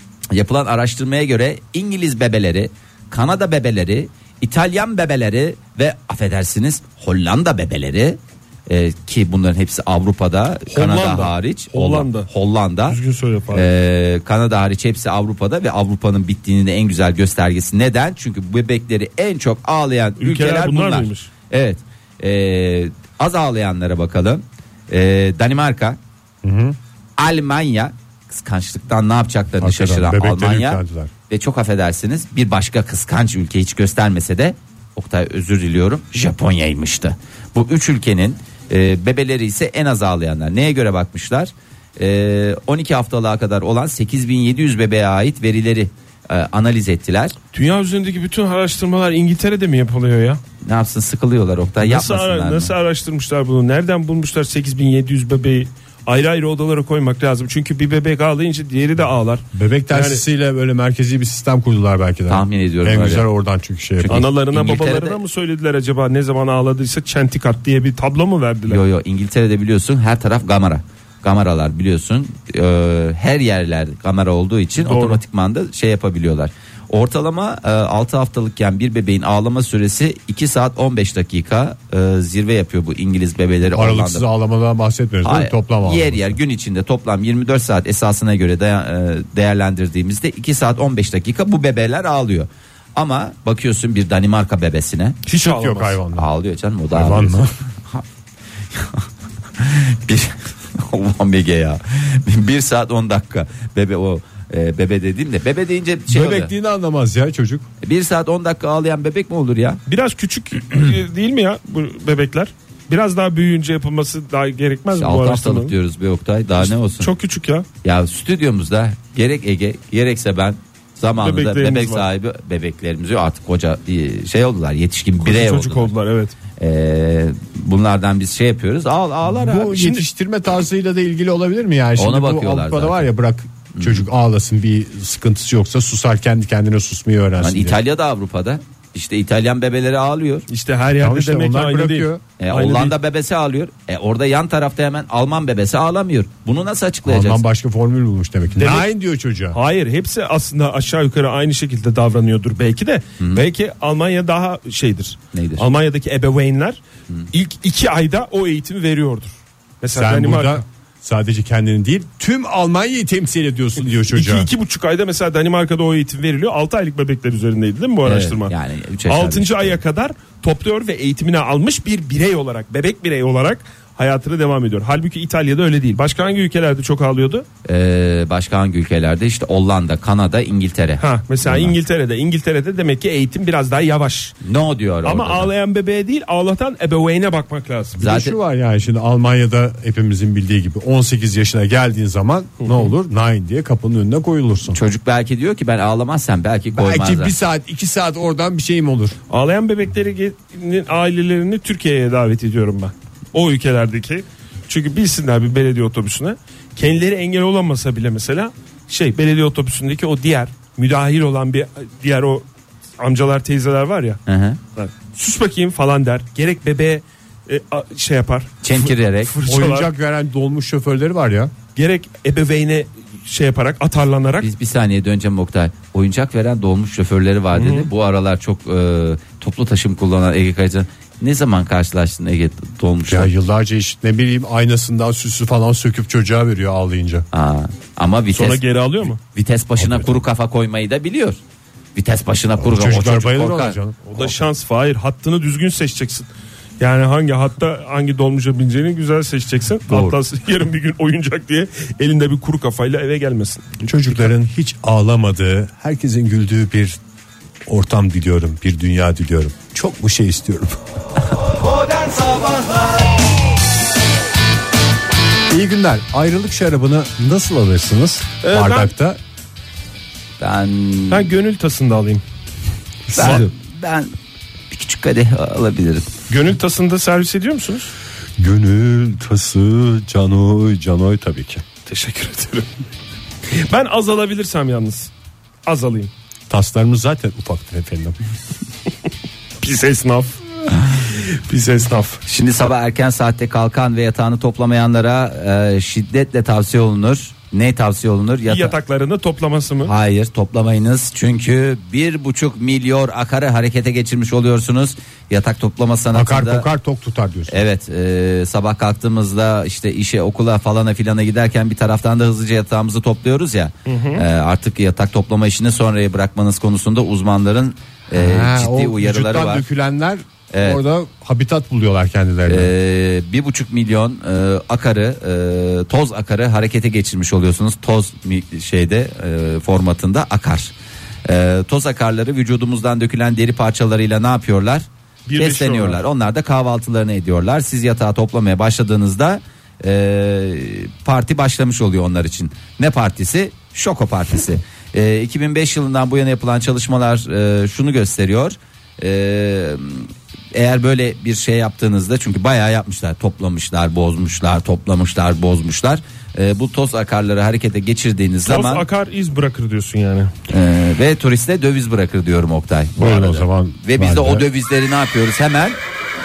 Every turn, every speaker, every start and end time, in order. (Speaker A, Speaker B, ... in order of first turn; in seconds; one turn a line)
Speaker A: 0.3-13.0
Speaker B: 10.7-12.3
Speaker B: 12.9-13.7
Speaker A: 13.5-26.0
Speaker B: 20.2-21.3
Speaker C: 26.4-26.8
Speaker A: 27.2-47.3
Speaker C: 29.6-31.1
Speaker B: 47.5-50.4
Speaker A: 50.6-52.7
Speaker B: 51.8-60.2
Speaker C: 59.5-64.2
Speaker A: 62.3-63.2
Speaker A: 64.0-65.2
Speaker B: 64.1-68.8
Speaker A: 68.7-84.2
Speaker B: 74.8-75.2
Speaker C: 83.7-86.4
Speaker A: 85.2-95.2
Speaker C: 95.2-96.3
Speaker B: 95.4-96.0
Speaker A: 96.1-98.0
Speaker C: 96.9-97.5
Speaker A: 98.7-99.0
Speaker A: 99.6-106.5
Speaker C: 106.1-107.7
Speaker A: 107.8-109.8
Speaker B: 109.9-115.7
Speaker A: 115.0-117.1
Speaker B: 116.6-117.7
Speaker A: 117.8-125.9
Speaker B: 121.2-122.0
Speaker B: 125.2-126.3
Speaker A: 126.6-130.0
Speaker C: 129.3-137.8
Speaker A: 132.0-133.1
Speaker A: 133.7-134.1
Speaker A: 137.4-140.4
Speaker B: 140.5-142.9
Speaker C: 141.0-142.2
Speaker A: 142.4-147.4
Speaker C: 147.0-149.6
Speaker B: 148.6-148.9
Speaker B: 149.5-156.8
Speaker A: 155.3-155.7
Speaker B: 157.3-160.6
Speaker C: 159.9-164.5
Speaker B: 164.1-168.5
Speaker A: 168.0-169.8
Speaker B: 169.1-177.4
Speaker A: 177.6-181.7
Speaker B: 181.0-184.3
Speaker A: 184.4-185.5
Speaker B: 185.0-188.0
Speaker C: 188.0-194.8
Speaker A: 188.0-188.3
Speaker B: 192.6-192.9
Speaker A: 194.7-197.3
Speaker C: 196.7-199.2
Speaker B: 199.3-212.4
Speaker B: 213.0-214.2
Speaker A: 214.2-214.6
Speaker B: 214.8-219.9
Speaker A: 218.6-219.3
Speaker C: 219.4-221.5
Speaker B: 221.7-224.5
Speaker A: 224.4-233.3
Speaker B: 227.5-227.9
Speaker C: 233.1-237.3
Speaker A: 237.3-238.6
Speaker B: 238.3-239.2
Speaker A: 239.2-241.4
Speaker C: 239.8-240.2
Speaker A: 241.9-244.2
Speaker C: 242.6-244.0
Speaker B: 244.1-246.3
Speaker B: 246.8-253.6
Speaker A: 249.9-250.2
Speaker C: 253.8-257.0
Speaker C: 257.7-260.8
Speaker A: 261.9-263.0
Speaker C: 265.5-269.2
Speaker B: 268.4-268.9
Speaker A: 270.4-271.3
Speaker B: 271.1-272.2
Speaker C: 273.1-273.4
Speaker A: 273.1-274.1
Speaker B: 273.1-273.5
Speaker A: 274.7-276.1
Speaker B: 276.3-277.9
Speaker C: 278.4-281.6
Speaker B: 281.9-282.7
Speaker B: 283.5-285.1
Speaker B: 285.6-286.1
Speaker C: 286.5-288.2
Speaker B: 289.6-292.2
Speaker A: 292.2-298.7
Speaker B: 298.5-299.9
Speaker A: 299.8-306.7
Speaker C: 306.1-307.6
Speaker A: 307.5-319.6
Speaker B: 313.9-314.2
Speaker C: 318.1-322.7
Speaker A: 320.5-320.8
Speaker A: 322.5-330.7
Speaker A: 331.2-358.8
Speaker B: 335.3-336.0
Speaker B: 358.4-360.3
Speaker A: 360.5-365.8
Speaker C: 363.0-364.5